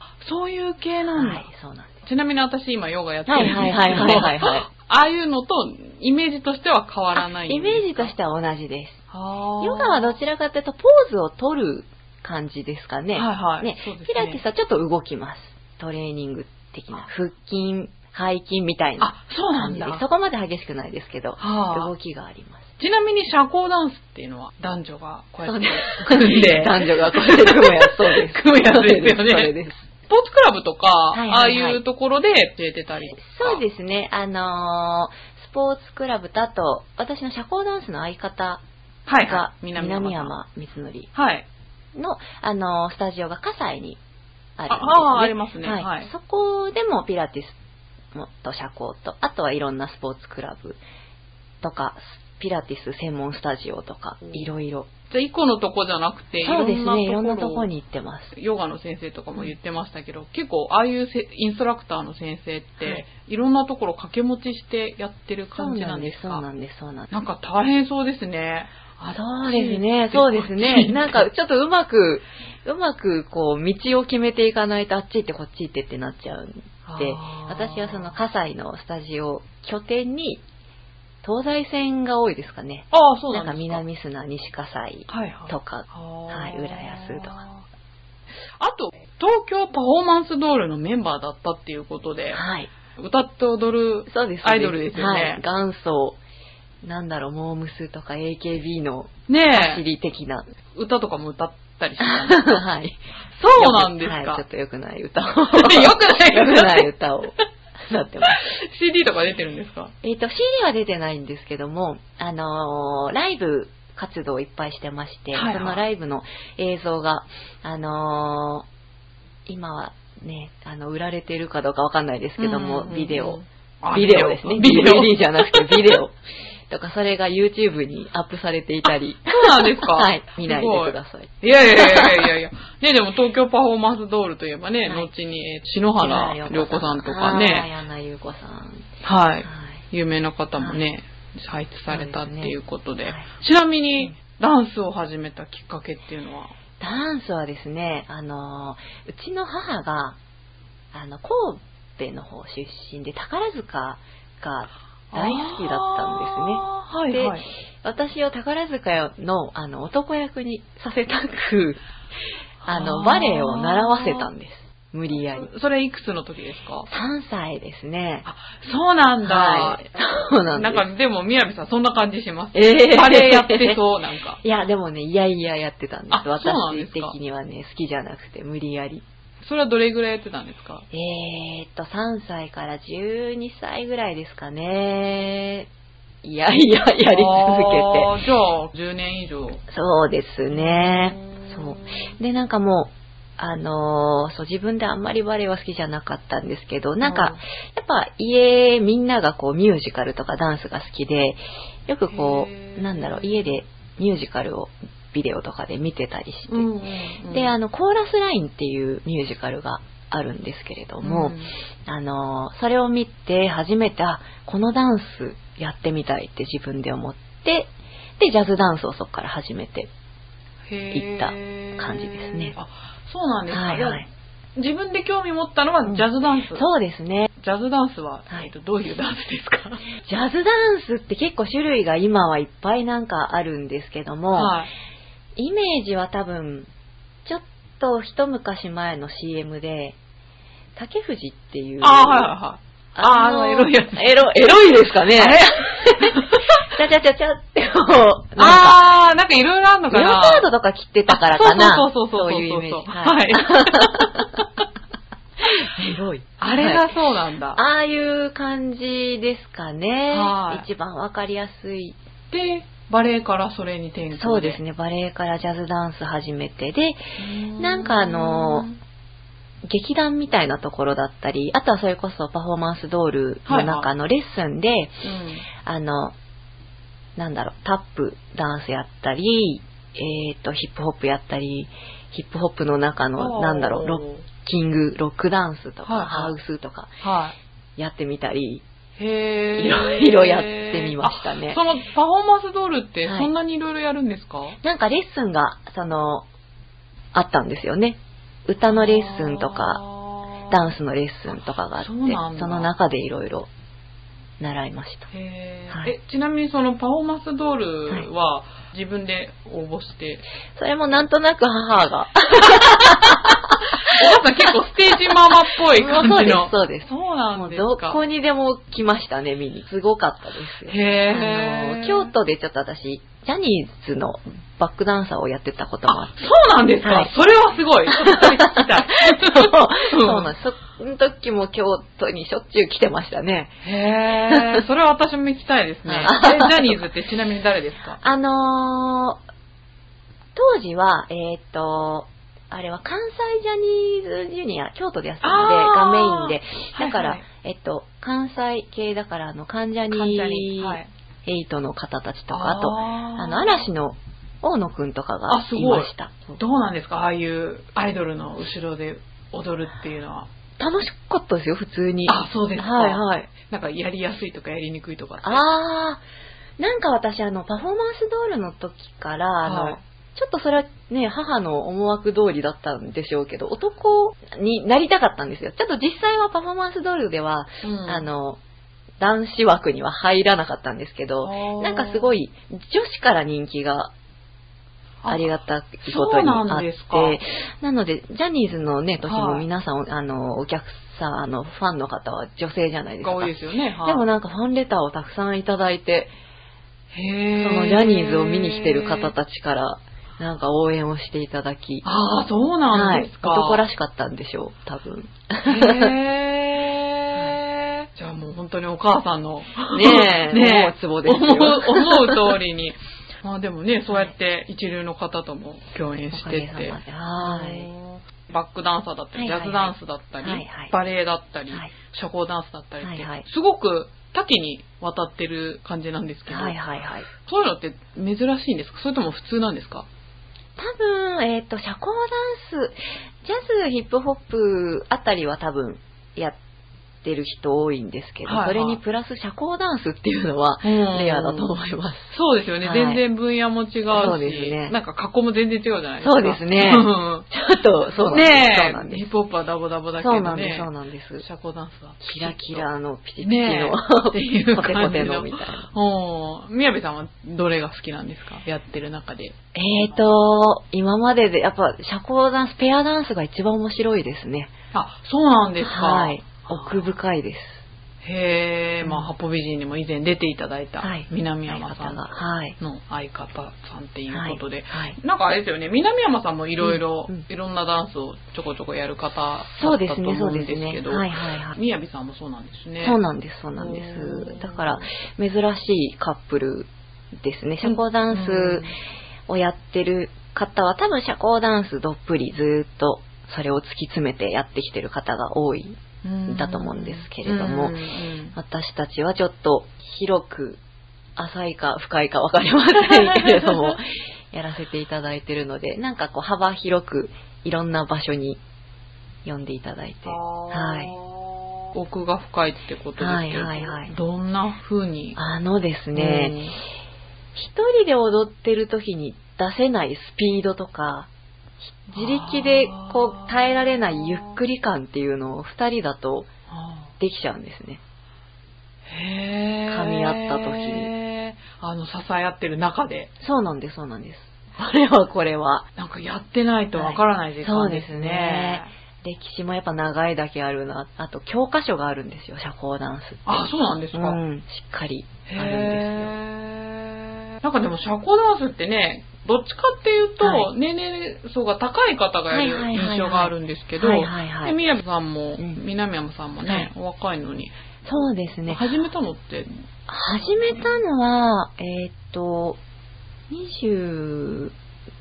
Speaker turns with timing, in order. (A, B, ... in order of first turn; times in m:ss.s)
0:00.2-0:01.5 A
0:01.1-0:02.0 B
0:02.0-0:08.1 A
0:03.3-0:04.7 B
0:07.5-0:09.0 B
0:09.1-0:10.2 A
0:09.6-0:22.7 B
0:13.2-0:14.4 A
0:19.0-0:20.0 A
0:21.4-0:21.9 A
0:22.8-0:29.5 A
0:25.4-0:29.9 B
0:30.1-0:33.6 A
0:31.1-0:31.8 B
0:33.1-0:38.6 B
0:39.1-0:40.3 A
0:39.2-0:41.1 B
0:41.1-0:41.5 A
0:42.0-0:44.0 B
0:44.6-0:47.6 B
0:44.7-0:46.1 A
0:48.1-0:50.8 B
0:51.6-0:54.9 B
0:55.1-0:57.7 A
0:56.4-0:58.3 B
0:58.3-1:06.4 A
1:05.6-1:07.1 B
1:07.1-1:11.3 A
1:09.1-1:20.4 B
1:16.8-1:18.2 A
1:21.2-1:27.4 B
1:22.9-1:23.8 A
1:25.1-1:27.6 A
1:28.6-1:32.4 A
1:32.3-1:32.7 B
1:33.0-1:35.4 A
1:34.1-1:36.2 B
1:36.8-1:40.5 B
1:39.3-1:39.8 A
1:40.7-1:42.5 A
1:42.0-1:43.0 B
1:43.4-1:44.4 A
1:43.6-1:48.4 B
1:45.5-1:46.9 A
1:48.3-1:49.9 A
1:50.0-1:58.7 B
1:55.3-1:55.8 A
1:59.5-2:03.4 B
2:02.4-2:06.0 A
2:03.9-2:06.2 B
2:06.7-2:12.3 B
2:09.3-2:17.7 A
2:16.0-2:18.9 B
2:19.0-2:26.5 A
2:19.5-2:19.8 B
2:21.9-2:22.5 B
2:26.8-2:30.2 B
2:30.9-2:41.8 B
2:35.1-2:37.4 A
2:42.6-2:44.3 A
2:42.7-2:45.5 B
2:45.1-2:46.9 A
2:46.9-2:48.3 B
2:48.2-2:54.4 A
2:49.2-2:50.8 B
2:52.5-2:53.8 B
2:54.4-2:59.0 B
2:56.1-2:57.2 A
2:59.4-3:00.9 A
3:00.9-3:05.7 B
3:06.2-3:08.1 B
3:07.1-3:09.6 A
3:09.7-3:26.7 B
3:10.5-3:12.1 A
3:17.0-3:17.4 A
3:22.1-3:23.5 A
3:26.5-3:27.6 A
3:27.3-3:39.9 B
3:31.0-3:31.5 A
3:40.7-3:46.6 A
3:40.9-3:42.6 B
3:43.5-3:44.0 B
3:45.9-3:47.3 B
3:47.4-3:49.9 A
3:50.0-3:54.6 B
3:54.3-3:54.7 A
3:55.4-3:56.7 B
3:57.2-4:00.0 B
4:00.8-4:02.3 B
4:01.8-4:06.7 A
4:03.0-4:08.8 B
4:08.4-4:10.5 A
4:09.9-4:14.4 B
4:11.1-4:14.6 A
4:15.4-4:16.9 B
4:16.4-4:17.6 A
4:17.6-4:22.0 B
4:20.1-4:20.7 A
4:22.3-4:24.6 A
4:24.1-4:27.0 B
4:27.2-4:28.8 A
4:27.6-4:28.7 B
4:29.6-4:35.0 B
4:33.5-4:33.9 A
4:35.0-4:35.5 A
4:35.6-4:36.1 B
4:37.2-4:47.0 B
4:43.2-4:44.3 A
4:45.8-4:46.4 A
4:47.0-4:47.4 A
4:47.8-4:48.6 B
4:49.0-4:54.6 A
4:49.6-4:51.6 B
4:53.0-4:53.3 B
4:54.6-4:56.3 B
4:57.1-4:59.8 B
4:58.7-5:00.6 A
5:00.5-5:03.5 B
5:01.8-5:02.7 A
5:04.4-5:05.1 B
5:05.1-5:10.2 A
5:10.6-5:13.4 B
5:12.4-5:18.0 A
5:15.7-5:26.2 B
5:20.7-5:22.1 A
5:25.9-5:30.3 A
5:26.8-5:27.1 B
5:27.9-5:33.6 B
5:33.6-5:38.0 A
5:35.8-5:36.8 B
5:38.0-5:39.2 B
5:40.4-5:56.4 B
5:45.2-5:47.2 A
5:49.9-5:50.9 A
5:52.3-5:53.7 A
5:55.3-6:00.3 A
6:00.6-6:03.3 B
6:02.1-6:05.4 A
6:05.2-6:06.0 B
6:06.6-6:18.4 B
6:09.4-6:09.8 A
6:17.6-6:18.1 A
6:19.0-6:23.9 B
6:21.2-6:22.1 A
6:25.0-6:27.2 A
6:25.1-6:36.1 B
6:29.0-6:29.4 A
6:33.0-6:34.0 A
6:36.9-6:39.1 A
6:37.4-6:41.8 B
6:41.8-6:43.6 A
6:42.7-6:46.0 B
6:45.4-7:06.6 A
6:49.7-6:52.4 B
6:56.1-6:57.7 B
6:59.2-7:00.7 B
7:02.8-7:03.2 B
7:06.3-7:07.1 B
7:07.2-7:09.9 A
7:10.6-7:16.4 B
7:17.0-7:23.0 B
7:18.2-7:18.8 A
7:20.6-7:27.3 A
7:23.9-7:24.7 B
7:26.0-7:29.1 B
7:28.0-7:32.7 A
7:30.0-7:31.2 B
7:32.0-7:35.7 B
7:33.2-7:39.3 A
7:39.5-7:44.5 B
7:44.7-7:46.9 A
7:45.6-7:47.6 B
7:48.0-8:03.0 A
7:48.8-7:49.1 B
7:50.8-7:52.6 B
7:54.1-7:55.0 B
7:56.6-7:57.2 B
7:59.5-8:01.6 B
8:02.8-8:08.7 B
8:03.6-8:04.9 A
8:07.6-8:08.8 A
8:09.3-8:17.8 B
8:16.0-8:18.4 A
8:18.3-8:20.6 B
8:21.2-8:28.4 B
8:23.1-8:23.7 A
8:29.2-8:30.9 B
8:30.1-8:35.2 A
8:33.0-8:33.9 B
8:35.2-8:36.4 B
8:35.9-8:36.6 A
8:37.4-8:41.1 B
8:41.6-8:46.3 B
8:41.9-8:44.4 A
8:46.5-8:46.9 A
8:47.0-8:47.8 B
8:48.9-8:53.1 A
8:49.7-8:50.9 B
8:53.2-8:55.7 B
8:55.8-8:58.7 A
8:56.8-9:06.1 B
9:03.3-9:04.2 A
9:05.3-9:17.5 A
9:10.2-9:10.5 B
9:12.3-9:14.6 B
9:17.8-9:18.6 B
9:18.5-9:19.6 A
9:19.9-9:22.6 B
9:20.4-9:20.7 A
9:23.3-9:24.5 B